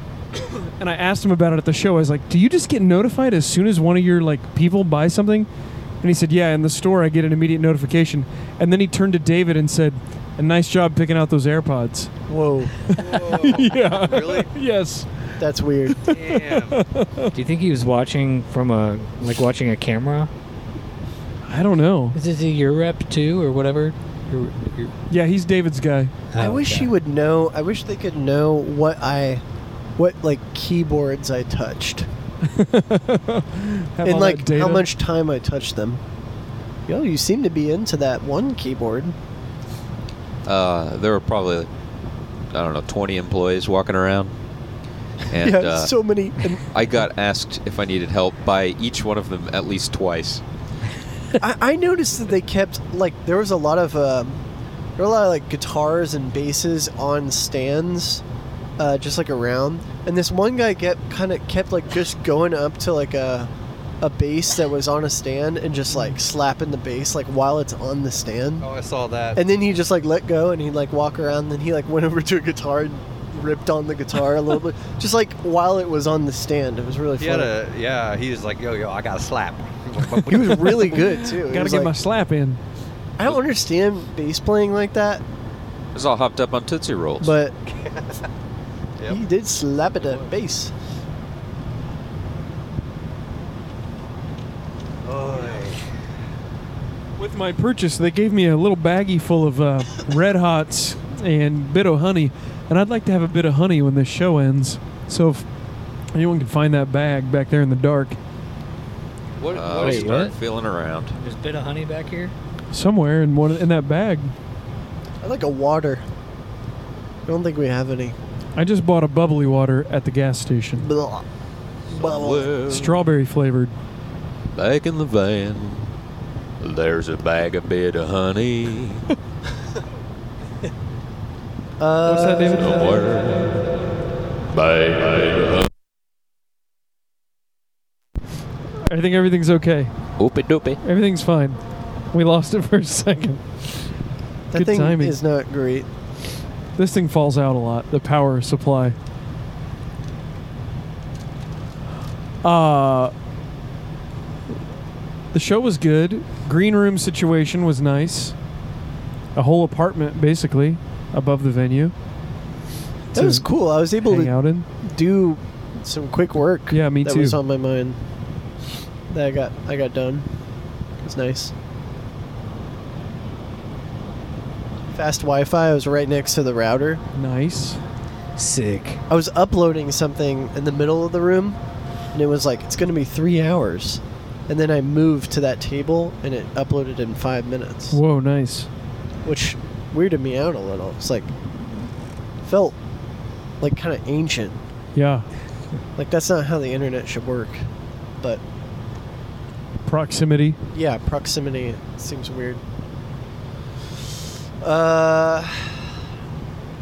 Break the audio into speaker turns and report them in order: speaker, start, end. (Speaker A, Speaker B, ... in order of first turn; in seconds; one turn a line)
Speaker A: 0.5-5.5
Speaker A: 6.0-12.1
Speaker B: 12.3-12.8
Speaker A: 12.8-15.4
Speaker C: 13.0-14.5
Speaker B: 15.4-16.1
Speaker A: 15.9-17.3
Speaker C: 16.1-16.8
Speaker D: 17.3-20.3
Speaker A: 21.4-22.2
Speaker D: 22.1-24.9
Speaker A: 25.1-26.1
Speaker D: 26.3-26.9
Speaker B: 26.4-29.4
Speaker B: 30.0-32.1
Speaker A: 32.4-34.9
Speaker B: 34.0-36.0
Speaker B: 36.9-39.2
Speaker E: 40.5-41.7
Speaker E: 42.5-44.3
Speaker E: 45.3-45.9
Speaker B: 45.4-46.6
Speaker E: 46.7-50.4
Speaker B: 51.4-54.4
Speaker B: 55.0-58.2
Speaker B: 58.8-68.7
Speaker C: 68.6-69.4
Speaker B: 69.3-77.5
Speaker C: 77.2-80.6
Speaker B: 80.3-82.0
Speaker A: 80.4-82.6
Speaker B: 83.2-85.2
Speaker E: 85.9-87.3
Speaker B: 87.2-87.6
Speaker C: 87.9-88.2
Speaker B: 89.1-90.7
Speaker C: 95.0-95.8
Speaker A: 97.2-105.5
Speaker A: 106.1-108.2
Speaker E: 109.4-111.2
Speaker C: 109.5-110.2
Speaker D: 109.6-110.3
Speaker D: 111.2-112.3
Speaker A: 112.7-114.3
Speaker B: 115.2-116.0
Speaker B: 117.3-118.2
Speaker A: 118.6-120.9
Speaker B: 120.8-121.2
Speaker B: 121.9-122.5
Speaker E: 121.9-123.0
Speaker A: 122.7-123.7
Speaker E: 124.5-125.9
Speaker E: 126.6-129.1
Speaker B: 131.8-132.8
Speaker A: 132.1-132.9
Speaker E: 132.5-133.7
Speaker E: 134.5-135.7
Speaker A: 138.8-139.9
Speaker E: 140.2-140.8
Speaker A: 140.8-141.6
Speaker A: 142.1-143.9
Speaker B: 144.5-145.9
Speaker A: 144.5-145.2
Speaker A: 146.8-149.0
Speaker A: 152.4-153.1
Speaker A: 155.3-158.4
Speaker A: 159.3-161.9
Speaker B: 163.1-168.0
Speaker A: 163.2-163.4
Speaker A: 164.1-164.7
Speaker A: 166.7-167.4
Speaker B: 169.1-170.3
Speaker B: 171.0-171.5
Speaker B: 174.9-177.0
Speaker A: 177.2-177.8
Speaker D: 178.4-179.0
Speaker B: 179.1-181.6
Speaker B: 182.1-188.0
Speaker A: 187.9-188.7
Speaker B: 189.2-191.3
Speaker B: 192.4-192.8
Speaker B: 193.6-194.6
Speaker A: 194.9-195.3
Speaker B: 196.0-197.7
Speaker A: 199.8-200.6
Speaker B: 200.7-202.6
Speaker B: 204.6-205.9